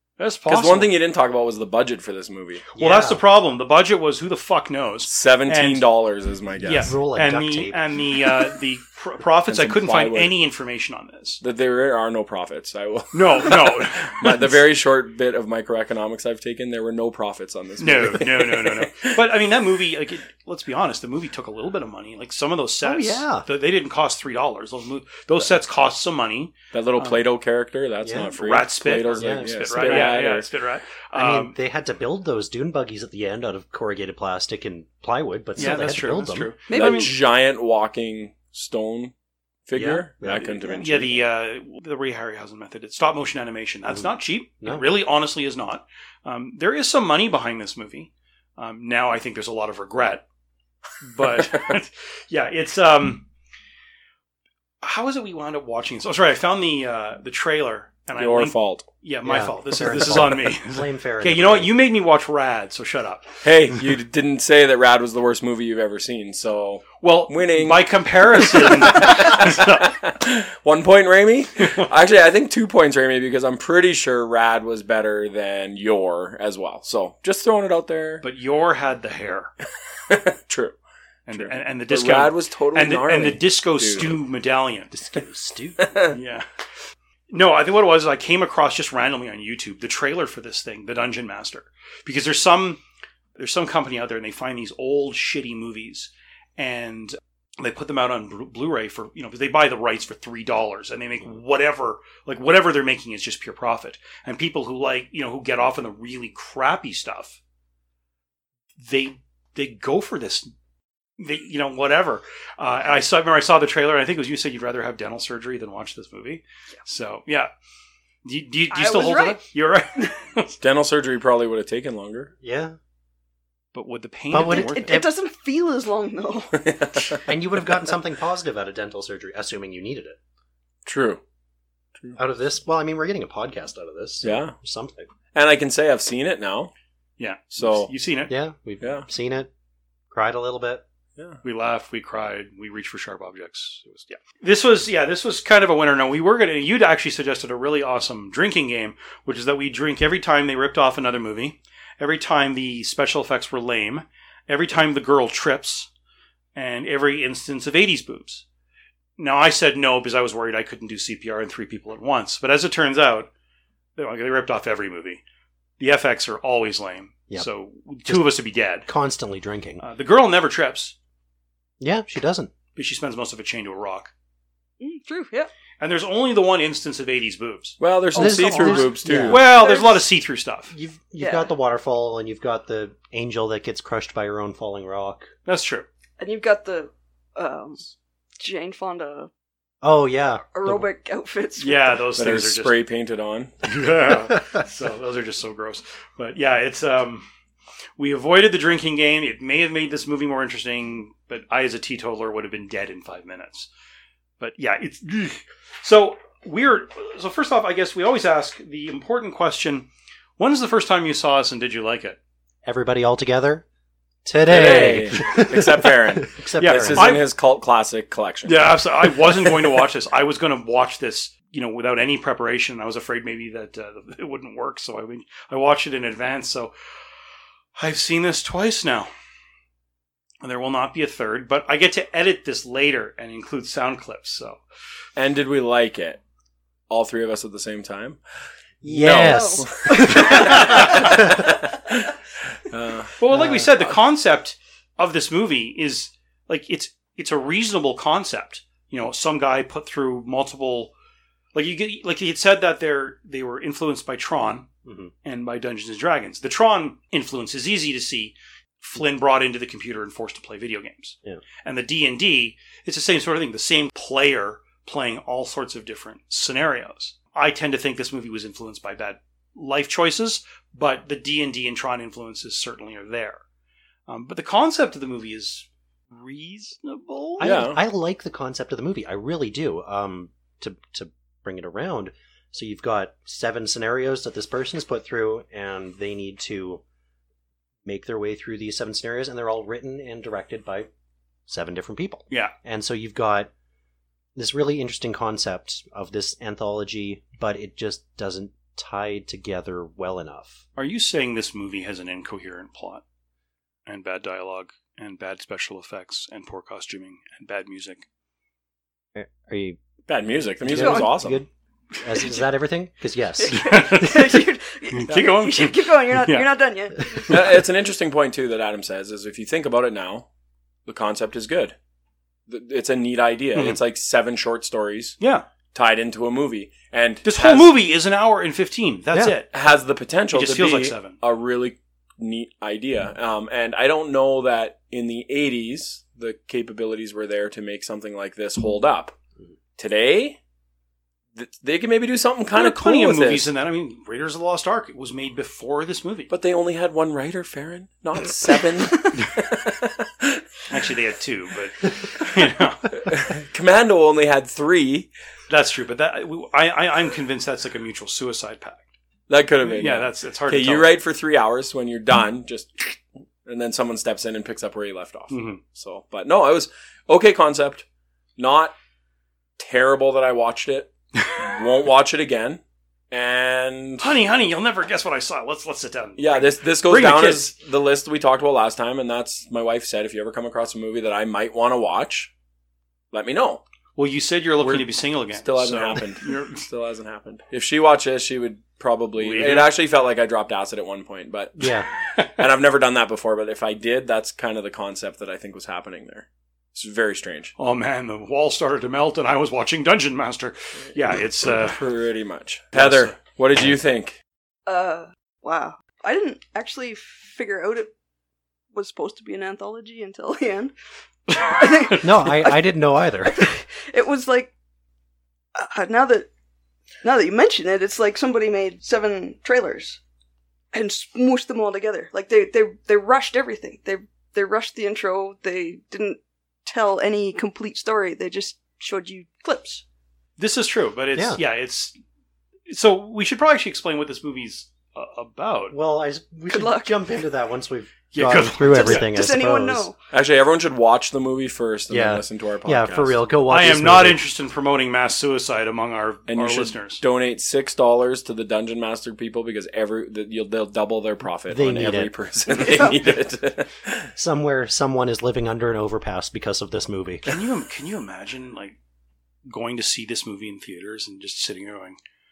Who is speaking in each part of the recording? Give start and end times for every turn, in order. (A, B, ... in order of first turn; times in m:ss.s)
0:00.2-0:00.9 A
0:00.5-0:02.6 B
0:02.7-0:03.2 C
0:02.8-0:05.9 A
0:05.0-0:06.9 B
0:06.6-0:11.4 A
0:06.8-0:07.8 C
0:09.5-0:10.3 B
0:11.4-0:19.2 B
0:13.1-0:14.5 A
0:17.8-0:27.2 A
0:22.8-0:23.4 C
0:26.7-0:30.5 B
0:28.0-0:28.3 C
0:28.4-0:31.6 A
0:29.1-0:30.2 C
0:31.1-0:36.5 C
0:35.6-0:37.1 A
0:36.7-0:37.1 D
0:36.7-0:39.1 B
0:39.6-0:41.2 B
0:39.8-0:40.6 C
0:40.8-0:50.2 A
0:51.0-0:53.2 A
0:54.8-1:03.4 A
0:58.2-0:58.8 B
0:59.2-1:01.7 C
1:03.4-1:18.2 B
1:07.0-1:09.8 A
1:11.6-1:11.9 A
1:18.2-1:19.5 A
1:20.1-1:20.8 B
1:21.3-1:24.9 A
1:21.3-1:24.2 B
1:24.9-1:25.9 C
1:25.8-1:26.1 B
1:26.1-1:26.4 A
1:27.3-1:32.8 A
1:33.4-1:47.4 A
1:48.8-1:50.5 A
1:51.2-1:57.5 A
1:58.2-2:00.6 A
1:58.7-1:59.4 D
2:00.6-2:02.3 B
2:02.4-2:02.8 C
2:03.7-2:05.0 A
2:04.3-2:05.1 C
2:04.4-2:06.7 D
2:06.6-2:07.2 B
2:07.2-2:10.2 C
2:10.8-2:11.2 B
2:12.2-2:15.1 C
2:14.2-2:14.5 B
2:15.3-2:16.7 B
2:17.2-2:18.3 A
2:17.6-2:17.9 B
2:18.3-2:19.5 C
2:18.8-2:19.0 B
2:20.1-2:20.8 C
2:21.4-2:35.9 A
2:36.5-2:38.4 A
2:39.2-2:43.3 A
2:44.0-2:45.2 A
2:45.8-2:48.9 A
2:48.0-2:49.8 C
2:49.8-2:50.9 A
2:51.8-2:52.5 C
2:52.7-2:54.1 A
2:54.8-2:55.5 D
2:55.8-2:57.8 A
2:57.8-2:59.4 B
2:58.1-2:58.9 D
2:58.1-2:59.4 C
2:59.3-3:00.7 A
2:59.4-3:00.0 D
3:00.7-3:05.3 C
3:01.2-3:01.5 D
3:05.4-3:05.9 A
3:06.2-3:09.3 D
3:09.8-3:10.4 C
3:10.5-3:11.9 D
3:11.6-3:12.8 A
3:12.1-3:13.5 B
3:13.6-3:17.2 A
3:18.0-3:23.7 A
3:24.4-3:32.2 A
3:32.6-3:33.6 C
3:34.2-3:37.2 C
3:34.5-3:38.8 B
3:34.6-3:35.4 A
3:36.6-3:37.3 A
3:38.4-3:46.7 A
3:47.8-3:49.1 A
3:50.4-3:54.6 A
3:55.2-3:56.2 B
3:56.9-3:58.2 B
3:58.8-4:03.2 B
3:58.8-4:01.4 C
3:59.1-4:01.0 D
4:00.4-4:01.1 A
4:03.2-4:10.9 A
4:03.3-4:03.7 C
4:11.5-4:14.7 A
4:14.8-4:15.1 C
4:15.2-4:33.4 A
4:34.1-4:37.5 A
4:37.4-4:46.8 C
4:37.4-4:37.8 B
4:47.8-4:50.9 C
4:51.5-4:53.5 C
4:54.4-5:00.6 C
5:00.8-5:03.0 A
5:03.9-5:08.0 A
5:09.1-5:09.8 C
5:10.1-5:11.4 B
5:10.6-5:11.5 C
5:10.7-5:11.1 D
5:12.0-5:14.1 C
5:13.4-5:17.4 D
5:13.5-5:16.5 A
5:17.3-5:20.3 B
5:20.8-5:21.7 B
5:22.5-5:25.2 B
5:25.2-5:25.4 A
5:25.7-5:27.7 B
5:27.2-5:29.5 A
5:29.5-5:39.2 B
5:30.3-5:31.2 A
5:39.8-5:40.4 B
5:41.3-5:43.5 B
5:42.5-5:46.3 A
5:46.3-5:50.4 B
5:50.7-5:52.9 A
5:52.9-5:55.1 B
5:55.5-5:58.9 A
5:59.3-6:07.8 B
5:59.6-6:01.0 A
6:05.3-6:05.6 A
6:08.4-6:08.7 B
6:09.6-6:14.1 B
6:14.0-6:17.5 A
6:16.2-6:22.3 B
6:23.1-6:23.6 B
6:24.0-6:26.6 A
6:24.6-6:37.5 B
6:29.2-6:29.7 A
6:31.6-6:31.9 C
6:37.6-6:41.8 A
6:41.4-6:44.2 B
6:42.7-6:43.2 A
6:44.7-6:47.9 D
6:48.7-6:50.7 D
6:51.3-6:52.7 D
6:51.3-6:52.0 A
6:52.0-6:53.5 C
6:53.2-6:54.5 D
6:55.5-6:56.3 D
6:57.0-7:00.0 D
7:00.7-7:09.8 D
7:10.4-7:11.9 A
7:11.1-7:11.4 C
7:12.7-7:15.8 A
7:15.7-7:19.9 C
7:16.5-7:16.9 D
7:18.1-7:19.1 A
7:18.6-7:20.0 D
7:20.1-7:23.2 B
7:21.9-7:24.2 C
7:23.5-7:27.0 A
7:26.3-7:34.1 B
7:31.5-7:32.1 C
7:32.6-7:33.0 D
7:34.1-7:37.2 C
7:37.2-7:38.8 A
7:39.5-7:42.0 A